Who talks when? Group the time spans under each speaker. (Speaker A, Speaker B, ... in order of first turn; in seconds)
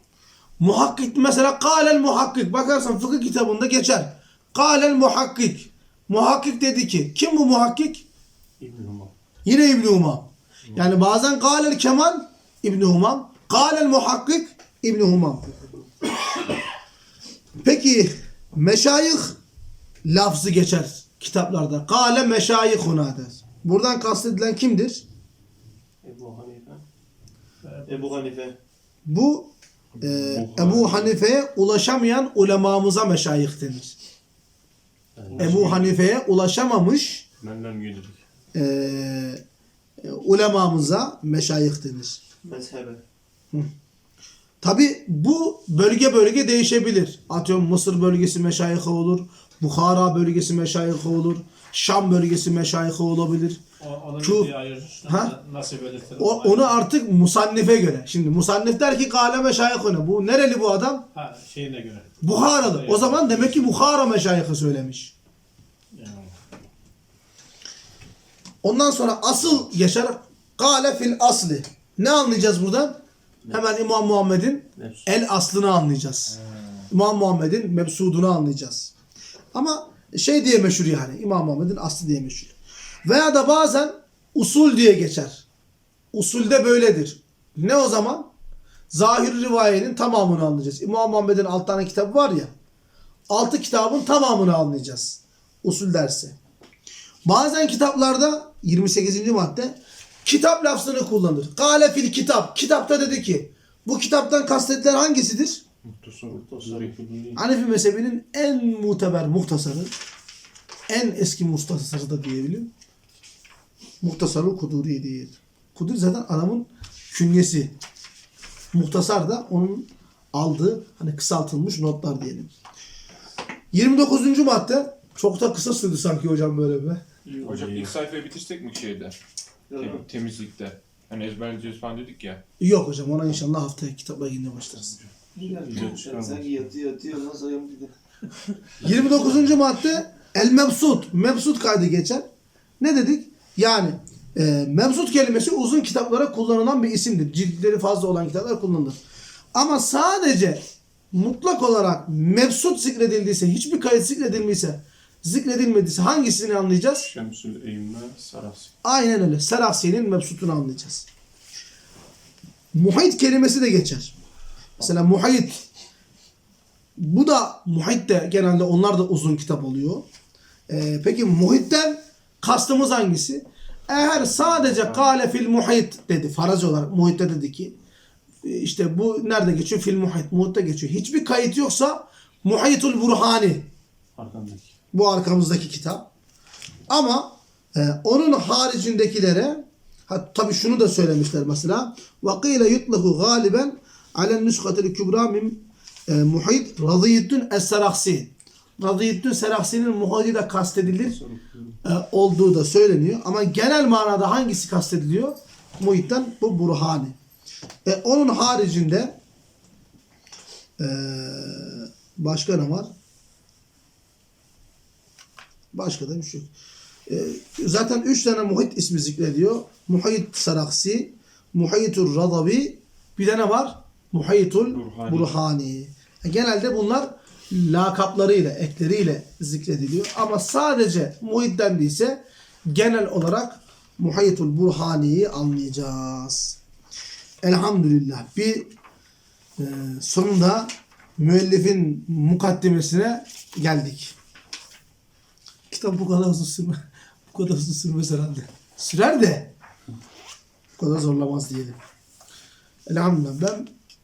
Speaker A: 0.6-8.0, 9.4-15.6, 17.6-19.4, 20.1-25.0, 29.1-33.9, 35.4-37.2, 38.5-39.4, 40.0-42.2, 44.6-53.6, 54.2-54.5, 55.1-55.3, 56.2-61.0, 62.2-65.1, 68.6-73.0, 73.5-76.4, 76.9-78.9, 79.5-82.5, 83.0-85.4, 86.1-88.3, 88.9-92.5, 93.3-96.3, 97.2-105.6, 107.3-109.9, 110.9-112.7, 114.0-117.8, 118.7-122.5, 123.7-127.0, 132.6-134.9, 138.8-142.2, 142.8-149.0, 149.5-157.1, 158.8-161.1, 162.7-164.1, 164.8-165.6, 167.0-170.1, 170.7-177.7, 178.4-183.7, 184.9-186.1, 186.9-201.2, 201.8-207.2, 207.8-209.2, 210.8-212.9, 215.7-216.5, 217.1-236.6, 237.4-238.7, 239.6-244.1, 245.7-246.8, 247.3-249.5, 250.8-251.8, 252.9-253.7
Speaker B: 8.6-9.1, 35.1-36.0, 37.4-38.2, 74.8-75.0, 106.3-107.4, 127.3-127.9, 135.5-136.3, 157.0-158.7, 184.2-184.7, 201.1-201.8
Speaker C: 26.0-26.8, 27.9-28.6, 42.4-43.0, 129.7-130.0, 135.3-137.9
Speaker D: 30.0-31.2, 76.3-76.9, 105.8-107.0, 127.4-129.2, 129.7-132.4, 135.7-136.5, 174.4-175.1, 224.7-225.4
Speaker E: 53.8-56.8, 61.1-63.6, 65.9-66.3